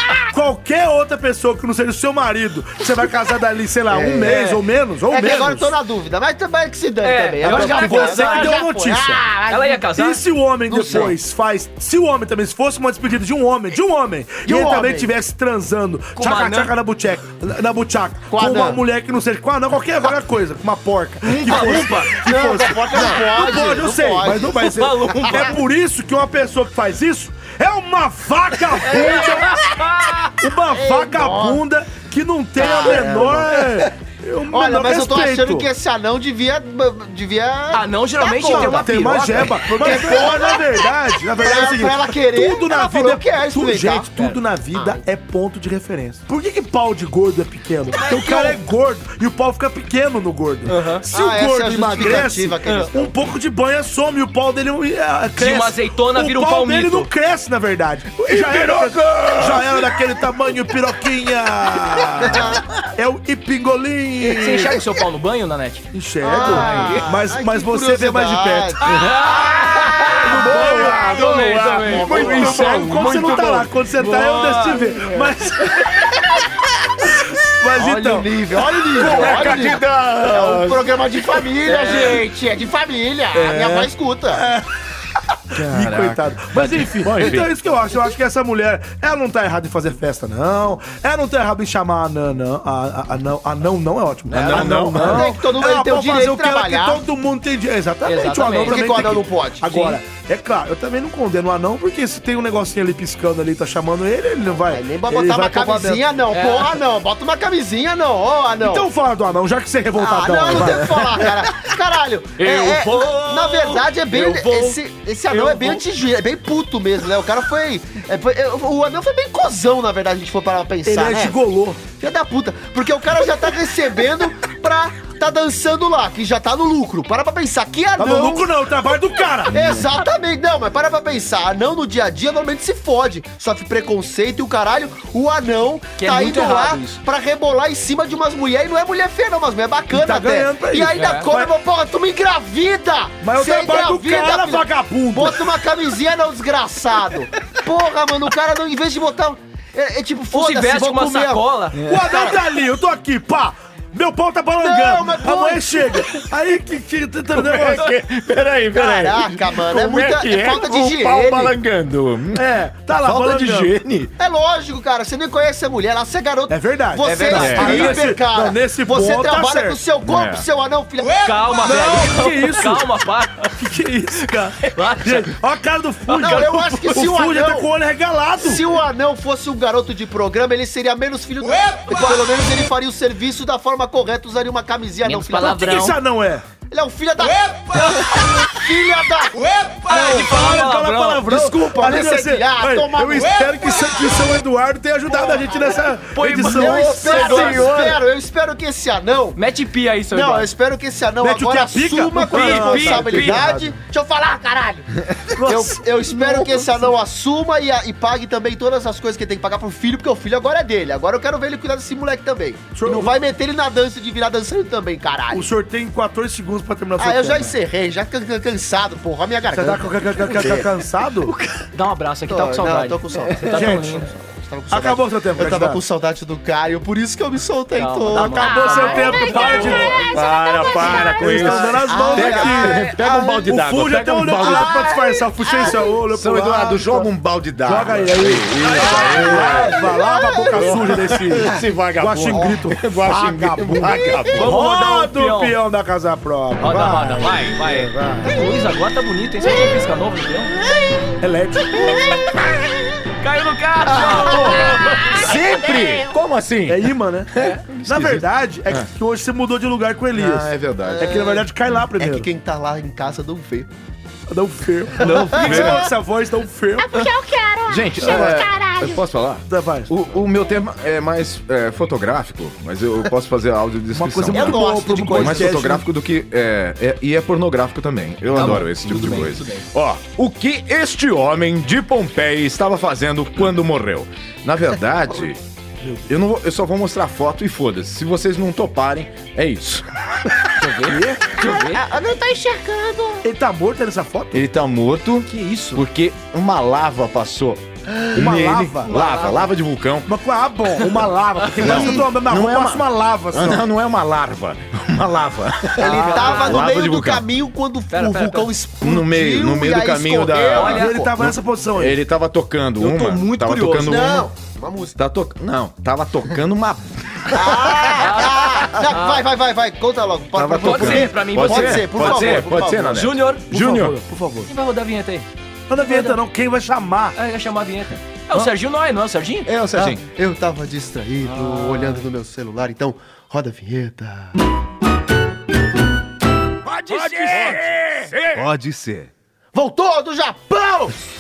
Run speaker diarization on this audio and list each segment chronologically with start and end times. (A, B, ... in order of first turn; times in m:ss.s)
0:00.3-0:05.7 A
0:03.9-0:04.4 B
0:04.2-0:04.6 C
0:05.1-0:09.9 B
0:07.0-0:08.6 C
0:07.4-0:09.2 A
0:09.5-0:10.2 C
0:09.9-0:29.7 A
0:10.7-0:11.2 B
0:10.8-0:11.1 C
0:14.4-0:15.2 B
0:16.2-0:16.7 C
0:18.3-0:18.8 B
0:21.2-0:22.2 C
0:21.5-0:24.7 B
0:23.0-0:23.4 C
0:24.6-0:25.6 C
0:28.8-0:30.3 C
0:30.4-0:35.7 A
0:30.7-0:31.6 B
0:32.6-0:33.8 B
0:32.6-0:33.1 C
0:34.5-0:44.1 B
0:37.7-0:40.1 C
0:38.4-1:04.8 A
0:44.7-0:45.0 B
0:47.9-0:48.6 C
0:50.7-0:51.0 C
0:51.1-0:53.3 B
0:55.4-0:57.1 C
0:58.2-1:00.0 D
1:02.3-1:02.6 B
1:04.3-1:07.1 C
1:05.9-1:08.8 A
1:06.2-1:10.7 B
1:08.8-1:13.3 C
1:09.7-1:13.7 D
1:10.1-1:16.1 A
1:13.9-1:15.7 C
1:17.6-1:19.7 A
1:17.8-1:24.4 B
1:18.9-1:21.3 D
1:21.7-1:22.1 C
1:23.3-1:24.6 A
1:25.5-1:46.0 A
1:25.6-1:27.5 D
1:34.3-1:35.3 D
1:34.4-1:37.0 B
1:38.0-1:38.8 C
1:38.6-1:40.0 B
1:44.6-1:48.9 B
1:46.3-1:46.8 C
1:48.6-1:51.4 A
1:50.0-2:01.4 B
1:52.4-1:55.8 C
2:00.8-2:01.9 A
2:01.9-2:08.5 B
2:08.0-2:09.8 A
2:09.5-2:32.5 B
2:16.0-2:17.0 C
2:19.9-2:21.6 A
2:20.8-2:21.3 C
2:23.2-2:25.5 A
2:30.3-2:31.8 C
2:31.8-2:37.9 A
2:34.6-2:36.2 B
2:37.3-2:42.5 D
2:38.8-2:41.6 B
2:42.3-2:43.8 A
2:43.0-2:44.1 D
2:44.2-2:51.4 B
2:46.5-2:49.8 A
2:47.1-2:48.0 D
2:50.0-2:50.5 D
2:51.2-2:53.5 C
2:51.6-2:52.9 A
2:53.6-2:58.6 A
2:54.2-2:55.4 C
2:56.1-2:57.0 C
2:56.2-2:57.7 B
2:58.4-3:05.9 B
3:05.0-3:06.0 C
3:05.4-3:06.4 A
3:06.7-3:10.4 B
3:09.9-3:11.3 C
3:09.9-3:17.7 A
3:11.3-3:13.6 B
3:16.1-3:17.7 C
3:16.4-3:19.4 B
3:16.5-3:18.0 D
3:19.4-3:20.5 C
3:20.1-3:35.5 B
3:21.2-3:23.8 A
3:22.3-3:23.5 C
3:25.4-3:26.8 A
3:32.7-3:33.2 A
3:35.3-3:37.6 A
3:37.0-3:40.7 B
3:39.5-3:41.3 A
3:41.2-3:44.1 C
3:42.3-3:49.8 B
3:43.5-3:44.0 A
3:44.7-3:45.8 A
3:47.8-3:50.0 C
3:48.2-3:50.0 A
3:48.7-3:51.2 E
3:49.5-3:55.0 D
3:50.9-3:53.4 B
3:51.0-3:57.1 A
3:54.4-3:54.7 B
3:55.5-3:55.9 B
3:56.1-3:59.8 D
3:57.6-4:08.3 A
3:58.8-4:00.9 B
4:00.5-4:04.6 D
4:02.3-4:02.6 B
4:04.4-4:05.6 C
4:06.6-4:10.6 C
4:11.2-4:12.2 A
4:13.2-4:15.3 C
4:13.8-4:18.9 D
4:16.7-4:17.3 A
4:17.8-4:22.3 A
4:20.2-4:21.2 D
4:20.8-4:23.7 B
4:24.3-4:27.0 A
4:25.1-4:25.7 B
4:25.2-4:25.6 C
4:25.4-4:25.8 D
4:26.8-4:29.1 E
4:27.7-4:45.4 D
4:28.0-4:28.4 A
4:29.5-4:29.9 A
4:33.9-4:35.8 A
4:34.3-4:35.8 B
4:38.3-4:39.7 C
4:45.8-4:46.1 A
4:46.1-4:50.7 D
4:50.6-4:51.4 A
4:51.4-4:51.8 C
4:51.4-4:53.2 B
4:53.2-4:54.4 A
4:54.3-5:00.1 D
4:55.3-4:55.8 C
4:57.9-4:58.2 B
4:58.2-4:58.9 A
4:58.8-4:59.4 C
5:00.1-5:03.7 A
5:01.6-5:02.1 B
5:01.6-5:07.3 D
5:05.8-5:10.9 B
5:05.8-5:06.7 C
5:07.9-5:08.5 C
5:08.8-5:14.3 D
5:10.4-5:11.0 C
5:10.6-5:12.0 A
5:12.8-5:14.1 C
5:13.8-5:15.0 B
5:15.0-5:17.8 D
5:17.3-5:23.1 B
5:18.0-5:19.2 C
5:20.3-5:24.0 D
5:20.6-5:23.4 C
5:23.5-5:24.5 A
5:24.5-5:25.3 C
5:25.7-5:27.2 A
5:25.8-5:26.2 C
5:27.2-5:29.5 C
5:29.4-5:30.0 D
5:29.7-5:34.4 B
5:31.2-5:32.0 C
5:36.6-5:39.1 D
5:36.9-5:37.5 C
5:37.0-5:37.6 A
5:39.5-5:41.0 B